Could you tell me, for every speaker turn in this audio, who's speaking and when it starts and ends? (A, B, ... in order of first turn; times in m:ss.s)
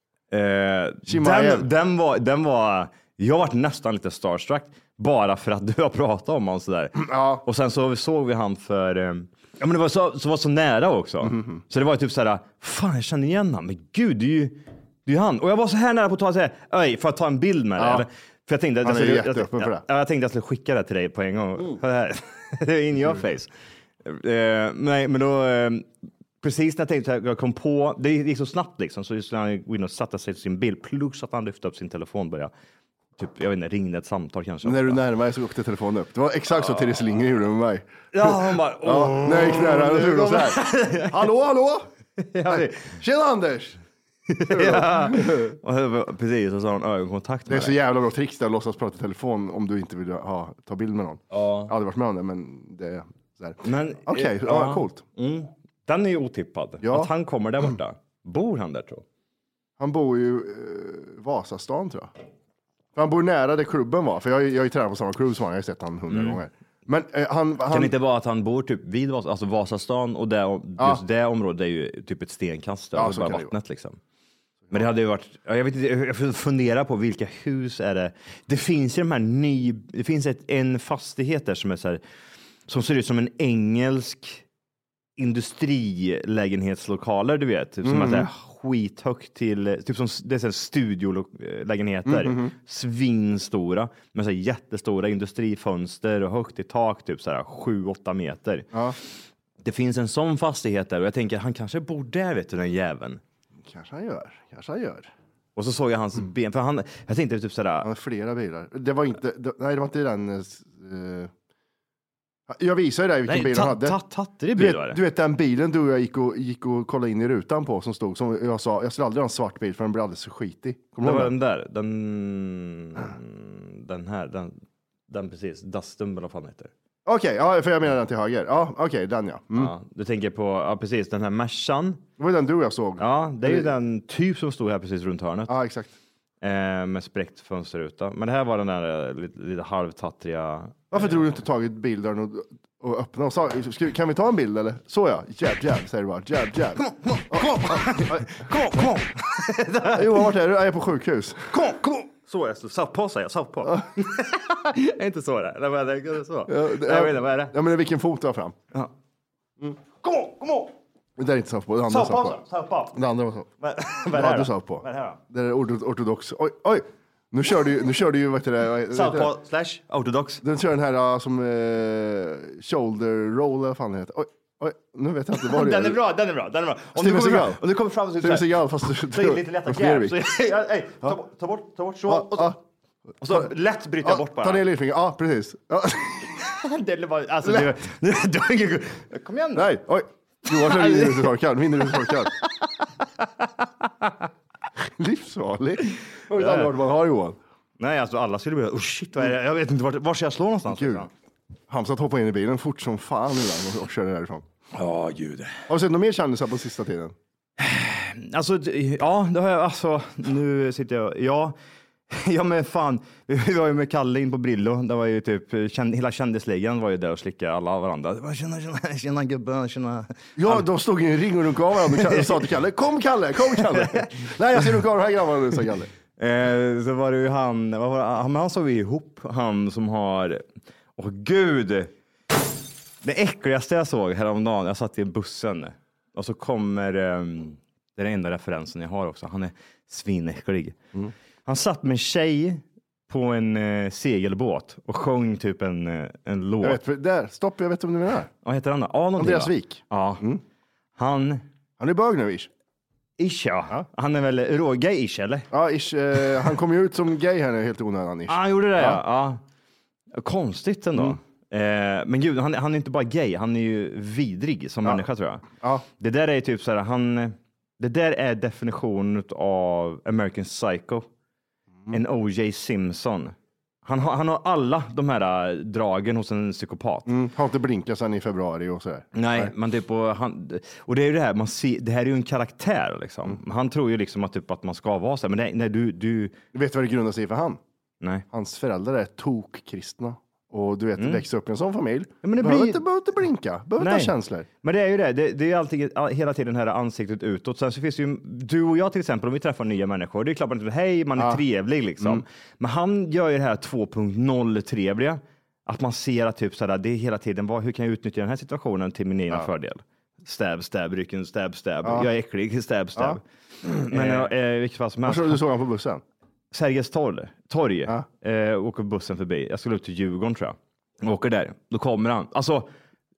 0:00.3-0:23.5 A
0:01.0-0:01.7 B
0:06.9-0:07.4 B
0:11.2-0:11.6 B
0:17.8-0:18.1 B
0:18.8-0:19.8 B
0:24.0-0:25.9 A
0:26.4-0:32.5 A
0:33.2-0:35.0 A
0:34.6-0:41.9 B
0:36.6-0:36.9 A
0:38.1-0:41.2 A
0:42.2-0:43.0 A
0:42.5-0:43.8 B
0:44.3-0:47.8 A
0:44.4-0:45.6 B
0:47.5-0:55.0 B
0:51.3-0:51.7 A
0:53.6-0:59.0 A
0:56.8-0:57.1 B
0:59.8-1:02.1 B
1:02.9-1:07.9 B
1:06.1-1:06.4 A
1:07.7-1:14.0 A
1:12.9-1:13.5 B
1:14.7-1:22.0 A
1:22.7-1:24.4 A
1:25.2-1:38.7 A
1:27.8-1:28.3 B
1:32.0-1:32.5 B
1:38.7-1:39.0 B
1:39.6-1:43.2 A
1:43.6-1:45.1 B
1:45.5-1:47.9 A
1:47.8-1:51.3 B
1:52.5-1:54.0 B
1:53.3-1:55.0 A
1:54.5-2:01.3 B
2:01.0-2:04.6 A
2:05.1-2:06.7 A
2:07.0-2:09.7 B
2:09.5-2:12.0 A
2:12.2-2:13.7 B
2:13.0-2:15.5 A
2:15.5-2:15.9 B
2:16.4-2:21.2 A
2:20.9-2:28.4 B
2:26.8-2:30.3 A
2:29.9-2:31.5 B
2:31.5-2:37.5 A
2:36.5-2:38.6 B
2:40.0-2:40.7 A
2:41.2-2:42.4 B
2:41.9-2:43.0 A
2:42.9-2:43.5 B
2:43.6-2:45.2 A
2:44.1-2:49.3 B
2:48.9-2:50.4 A
2:50.4-2:56.0 B
2:55.3-3:02.6 A
2:57.0-2:57.6 B
2:58.2-3:00.2 B
3:02.1-3:02.6 B
3:03.2-3:04.6 A
3:04.0-3:06.4 B
3:06.4-3:09.7 A
3:09.5-3:12.4 B
3:10.5-3:12.5 A
3:13.2-3:14.3 A
3:14.9-3:17.4 B
3:16.3-3:16.7 A
3:17.8-3:21.1 A
3:20.7-3:21.0 B
3:21.7-3:24.4 B
3:24.7-3:25.6 A
3:25.7-3:27.1 B
3:27.6-3:31.5 A
3:32.1-3:40.6 A
3:40.4-3:45.9 B
3:41.8-3:42.5 A
3:43.5-3:44.6 A
3:46.2-3:50.4 A
3:51.0-3:51.9 A
3:53.0-4:00.8 A
4:01.4-4:06.8 A
4:06.6-4:08.3 B
4:08.4-4:10.2 A
4:09.2-4:10.4 B
4:11.0-4:11.4 A
4:11.8-4:12.5 B
4:13.2-4:15.5 A
4:15.5-4:19.0 B
4:18.3-4:19.4 A
4:20.1-4:25.4 A
4:25.6-4:25.8 B
4:26.0-4:31.1 A
4:31.9-4:37.1 A
4:37.1-4:39.5 B
4:39.1-4:46.4 A
4:46.5-4:47.6 B
4:48.3-4:54.5 B
4:51.0-4:51.2 A
4:52.2-4:52.8 A
4:53.8-5:15.4 A
5:01.2-5:01.4 B
5:11.8-5:12.1 B
5:13.8-5:14.3 B
5:15.0-5:16.0 B
5:16.5-5:22.7 A